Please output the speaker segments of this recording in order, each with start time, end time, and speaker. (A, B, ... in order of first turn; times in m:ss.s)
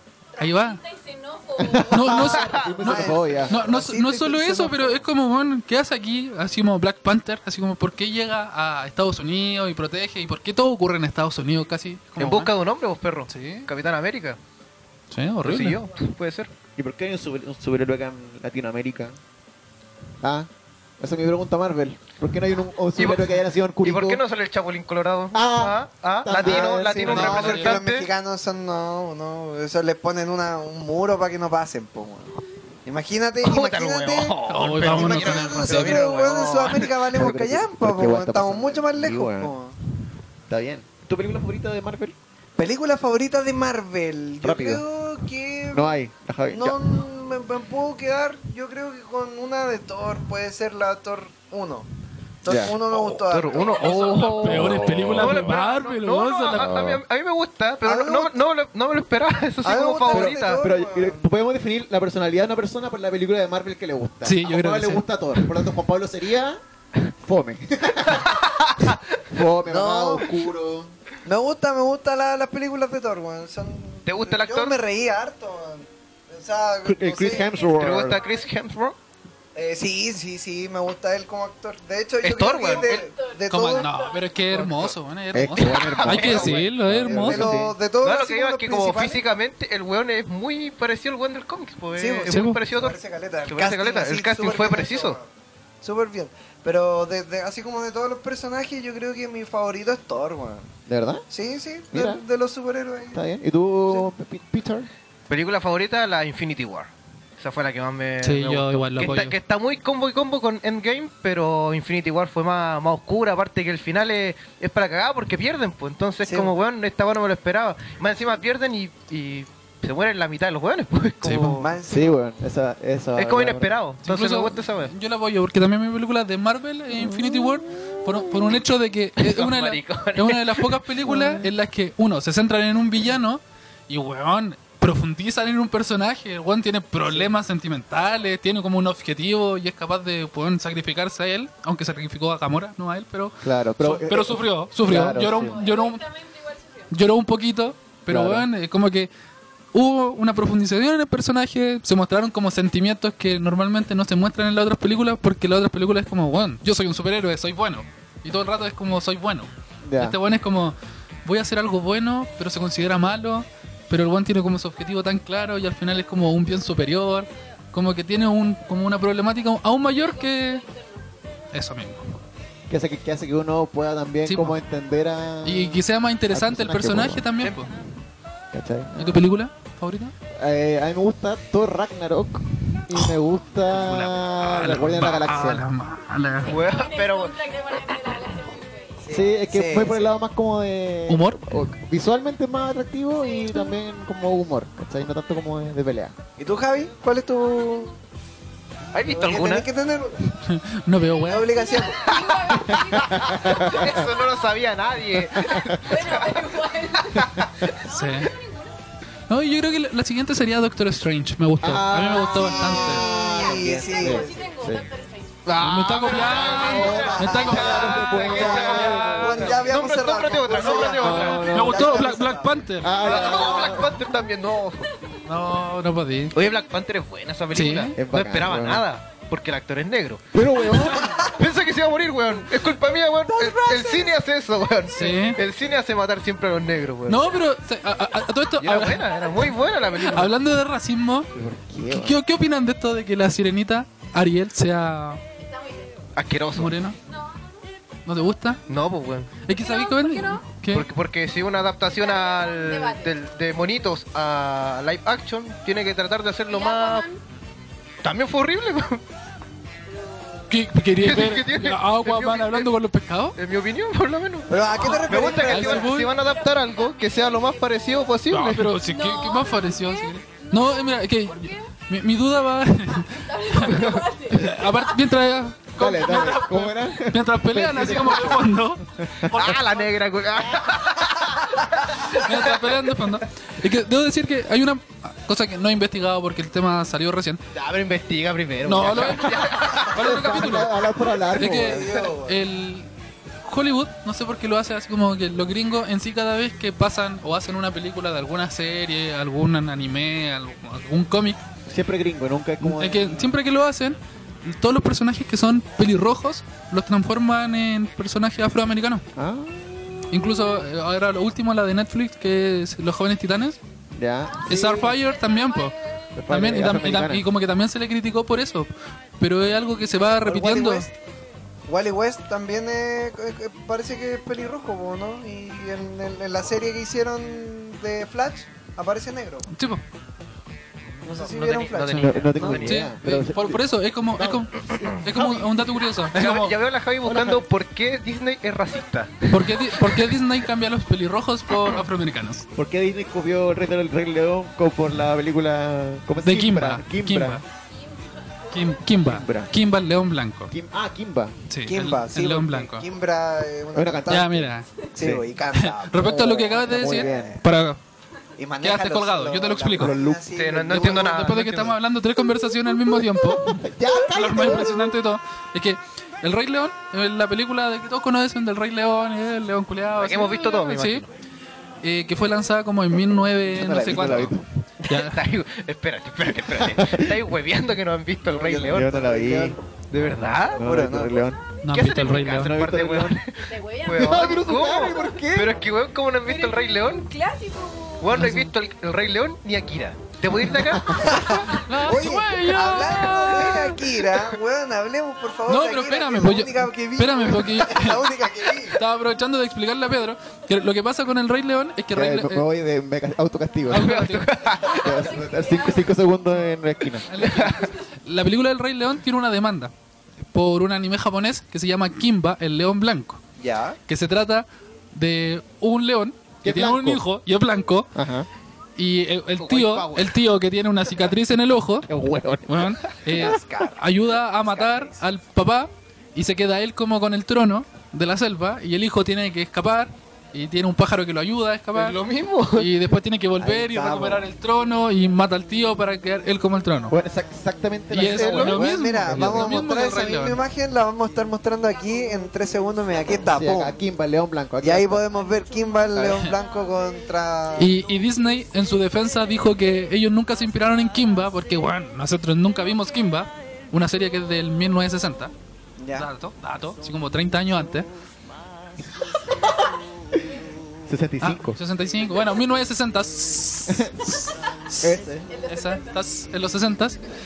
0:00.3-0:03.0 A
0:00.4-0:00.8 B
0:01.6-0:03.7 C
0:01.9-0:12.5 B
0:02.4-0:02.7 D
0:02.8-0:05.0 E
0:12.2-0:14.4 D
0:13.3-0:13.7 B
0:15.1-0:15.9 B
0:15.4-0:16.5 D
0:16.8-0:19.2 C
0:20.2-0:20.5 C
0:21.0-0:24.2 C
0:23.0-0:28.1 D
0:25.3-0:27.4 C
0:26.4-0:39.8 E
0:27.1-0:27.8 B
0:33.4-0:36.9 D
0:34.5-0:36.1 B
0:36.3-0:39.5 C
0:40.5-0:42.2 C
0:42.6-0:45.9 E
0:44.4-0:44.8 C
0:45.7-0:46.9 C
0:46.5-0:51.9 E
0:52.4-0:54.5 E
0:52.5-0:52.8 C
0:52.9-1:00.6 D
0:53.8-0:56.8 B
0:54.7-0:55.1 C
0:56.7-0:57.0 C
0:57.8-0:58.4 E
0:59.6-1:01.2 E
1:00.1-1:06.6 C
1:04.2-1:05.1 B
1:07.2-1:08.3 C
1:08.2-1:09.0 D
1:09.3-1:10.9 C
1:09.7-1:10.4 E
1:11.2-1:17.7 E
1:14.1-1:14.8 D
1:16.8-1:18.2 C
1:17.4-1:18.5 A
1:17.7-1:19.0 D
1:19.6-1:23.9 E
1:22.2-1:23.0 D
1:22.7-1:24.4 A
1:23.5-1:27.5 B
1:24.6-1:24.9 D
1:25.3-1:27.8 C
1:25.6-1:26.7 D
1:26.8-1:29.2 E
1:28.0-1:35.2 D
1:32.0-1:35.3 E
1:32.3-1:32.6 B
1:35.8-1:40.7 E
1:40.9-1:41.2 C
1:41.3-1:43.2 E
1:41.9-1:42.2 C
1:43.1-1:44.9 C
1:45.3-2:01.7 D
1:48.2-1:49.4 B
1:56.2-1:56.5 E
2:01.2-2:01.6 B
2:01.6-2:02.2 E
2:01.9-2:03.8 C
2:03.2-2:04.9 D
2:04.0-2:26.0 B
2:06.9-2:08.2 C
2:09.2-2:10.8 D
2:11.1-2:11.5 C
2:23.4-2:25.6 C
2:25.2-2:26.9 A
2:26.9-2:29.1 B
2:28.1-2:28.5 C
2:29.7-2:50.6 B
2:39.8-2:40.2 C
2:50.0-2:51.0 A
2:51.5-2:52.2 B
2:52.7-2:57.3 C
2:54.3-2:54.6 B
2:55.4-2:57.7 B
2:57.4-2:57.7 D
2:58.5-2:59.2 C
2:59.0-3:00.1 B
3:00.4-3:05.6 C
3:03.7-3:06.6 B
3:06.5-3:07.4 D
3:06.5-3:09.0 A
3:09.0-3:10.1 E
3:09.1-3:16.2 C
3:11.1-3:11.4 B
3:16.4-3:17.9 E
3:18.9-3:19.7 D
3:19.1-3:20.3 E
3:20.3-3:21.5 B
3:21.2-3:24.5 A
3:21.3-3:22.4 E
3:22.0-3:27.7 D
3:22.7-3:24.0 C
3:25.2-3:25.8 C
3:25.3-3:28.8 A
3:27.9-3:28.3 B
3:29.3-3:33.1 B
3:31.6-3:34.9 C
3:32.4-3:34.5 E
3:33.3-3:35.5 A
3:35.4-3:41.6 D
3:35.6-3:39.6 B
3:35.8-3:39.8 C
3:36.3-3:37.7 A
3:36.7-3:42.6 E
3:40.5-3:42.2 C
3:41.0-3:43.2 B
3:42.8-3:44.0 C
3:43.0-3:44.9 D
3:45.2-3:46.4 B
3:46.3-3:50.3 D
3:47.5-3:47.9 B
3:48.0-3:48.8 C
3:50.3-3:51.2 C
3:51.2-3:57.3 D
3:53.6-3:53.9 E
3:54.9-3:55.4 B
3:57.1-3:59.3 B
3:58.6-4:00.3 D
4:00.0-4:01.3 B
4:01.3-4:02.2 C
4:01.9-4:05.2 B
4:05.4-4:06.1 A
4:06.2-4:06.8 D
4:06.6-4:07.0 B
4:07.0-4:07.7 A
4:08.1-4:08.6 B
4:08.7-4:09.4 D
4:09.4-4:10.9 B
4:09.5-4:10.5 A
4:10.7-4:17.1 D
4:11.9-4:13.2 A
4:16.5-4:17.2 A
4:18.0-4:19.0 D
4:19.9-4:20.5 A
4:20.5-4:23.4 B
4:21.0-4:22.7 D
4:23.4-4:28.7 D
4:24.5-4:25.9 E
4:24.8-4:26.1 B
4:25.7-4:28.1 A
4:28.3-4:39.8 B
4:28.8-4:31.7 A
4:33.0-4:35.0 A
4:33.8-4:34.0 D
4:35.8-4:39.3 C
4:36.1-4:36.4 A
4:39.3-4:41.4 D
4:42.0-4:47.4 B
4:42.2-4:42.6 D
4:47.5-4:50.2 D
4:48.6-4:50.8 B
4:49.9-4:51.9 C
4:51.3-4:52.4 E
4:51.4-4:52.9 B
4:53.4-5:01.4 B
5:01.7-5:03.4 C
5:02.6-5:09.0 B
5:09.2-5:10.2 C
5:10.1-5:13.6 B
5:14.0-5:15.0 C
5:14.4-5:20.9 B
5:15.1-5:15.6 A
5:16.2-5:17.2 C
5:20.2-5:20.9 E
5:21.7-5:29.5 E
5:29.5-5:29.8 B
5:31.1-5:32.6 E
5:31.1-5:32.9 D
5:31.9-5:36.6 B
5:32.0-5:35.5 C
5:36.1-5:40.1 D
5:37.0-5:37.5 C
5:39.3-5:42.5 B
5:42.6-5:47.4 C
5:46.2-5:47.4 B
5:48.5-5:48.8 A
5:48.5-5:50.5 B
5:49.0-5:49.5 C
5:50.5-5:51.4 C
5:51.5-5:52.9 B
5:51.7-5:54.4 E
5:53.7-5:55.2 C
5:54.1-5:54.7 B
5:54.9-5:57.4 E
5:55.5-5:57.8 B
5:56.0-5:57.4 C
5:58.4-6:01.3 E
5:58.6-6:00.0 B
5:59.8-6:00.2 C
6:00.4-6:01.8 D
6:00.7-6:03.5 B
6:02.9-6:05.0 C
6:04.1-6:11.0 B
6:10.0-6:11.1 D
6:11.8-6:15.2 B
6:13.6-6:14.3 E
6:13.6-6:14.4 C
6:14.9-6:19.0 D
6:16.6-6:17.2 C
6:18.3-6:19.6 E
6:18.6-6:19.6 C
6:19.9-6:20.6 D
6:20.6-6:21.4 C
6:20.6-6:21.3 E
6:21.6-6:22.6 B
6:21.7-6:27.1 D
6:22.3-6:23.2 C
6:23.4-6:25.2 A
6:23.9-6:25.6 C
6:26.2-6:28.2 A
6:28.0-6:31.4 D
6:28.1-6:28.5 B
6:30.7-6:31.1 C
6:31.0-6:38.8 E
6:31.5-6:33.8 B
6:35.5-6:38.0 B
6:38.7-6:42.5 B
6:41.9-6:43.9 C
6:43.7-6:44.3 B
6:43.8-6:45.2 D
6:44.6-6:46.1 A
6:44.7-6:47.1 C
6:47.1-6:49.7 B
6:47.2-6:47.6 D
6:50.3-6:53.2 B
6:53.4-6:53.8 E
6:53.9-6:57.9 B
6:56.4-6:57.0 C
6:58.0-6:58.3 C
6:58.8-7:01.9 B
6:59.4-7:00.2 D
7:01.9-7:03.2 C
7:02.5-7:12.0 B
7:03.1-7:05.0 E
7:11.7-7:12.7 D
7:12.5-7:17.0 B
7:13.4-7:14.2 C
7:16.9-7:19.6 C
7:17.9-7:20.4 B
7:18.0-7:18.6 D
7:18.4-7:23.8 E
7:23.2-7:25.0 C
7:24.6-7:27.7 E
7:26.0-7:26.3 C
7:27.6-7:35.3 B
7:35.8-7:36.1 E
7:35.9-7:37.9 B
7:40.9-7:41.6 C
7:41.2-7:47.0 B
7:43.7-7:44.2 C
7:44.8-7:45.3 C
7:45.3-7:46.1 A